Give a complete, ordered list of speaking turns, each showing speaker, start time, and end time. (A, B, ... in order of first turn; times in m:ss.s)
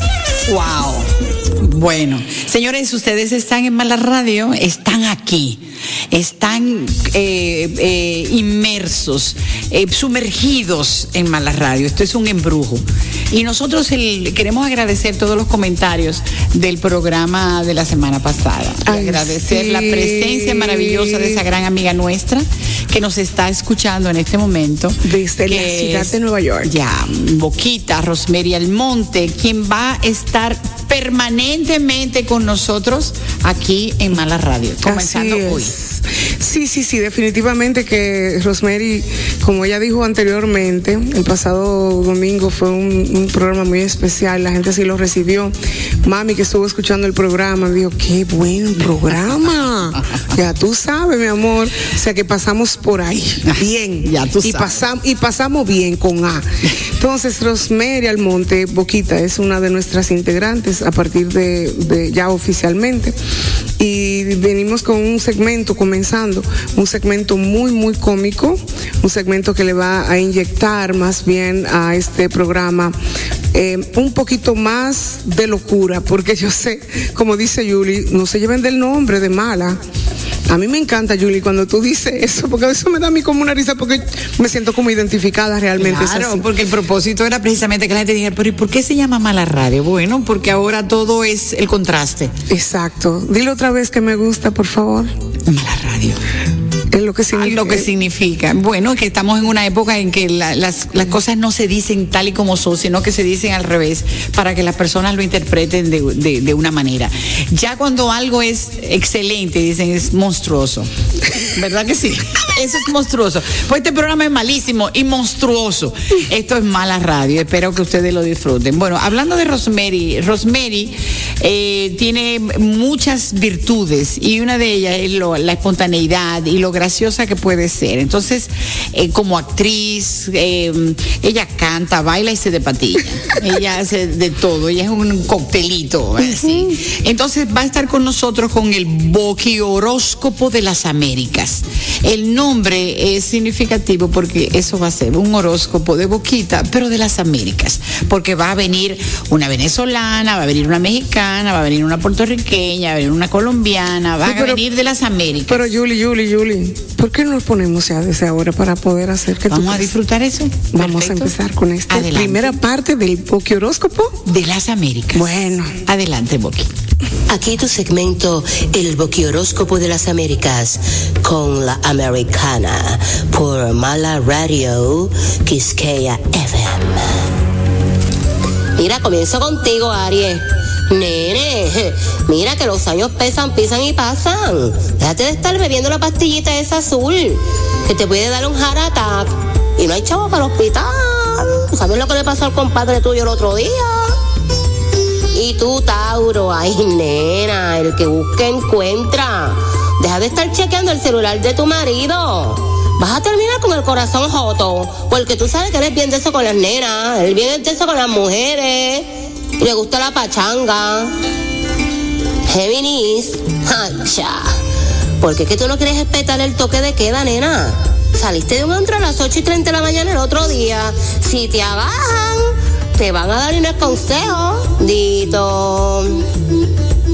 0:00.4-0:35.7 A
0:18.9-0:21.4 B
0:25.0-0:26.7 B
0:34.8-1:03.2 B
0:53.5-0:54.7 A
1:03.8-1:13.0 B
1:13.5-1:19.8 B
1:20.5-1:26.5 B
1:25.8-1:32.3 A
1:32.5-1:35.1 B
1:35.5-1:36.2 A
1:36.9-1:37.9 B
1:37.3-2:35.7 A
2:16.2-2:16.8 B
2:34.2-2:34.6 B
2:35.5-2:40.0 B
2:39.5-2:41.3 A
2:40.7-2:44.2 B
2:41.9-2:42.6 A
2:44.2-2:45.3 A
2:45.1-2:45.8 B
2:45.8-2:46.7 A
2:47.3-2:57.2 C
2:58.8-3:14.2 C
3:15.3-3:31.1 C
3:32.5-3:34.6 C
3:35.2-3:46.2 C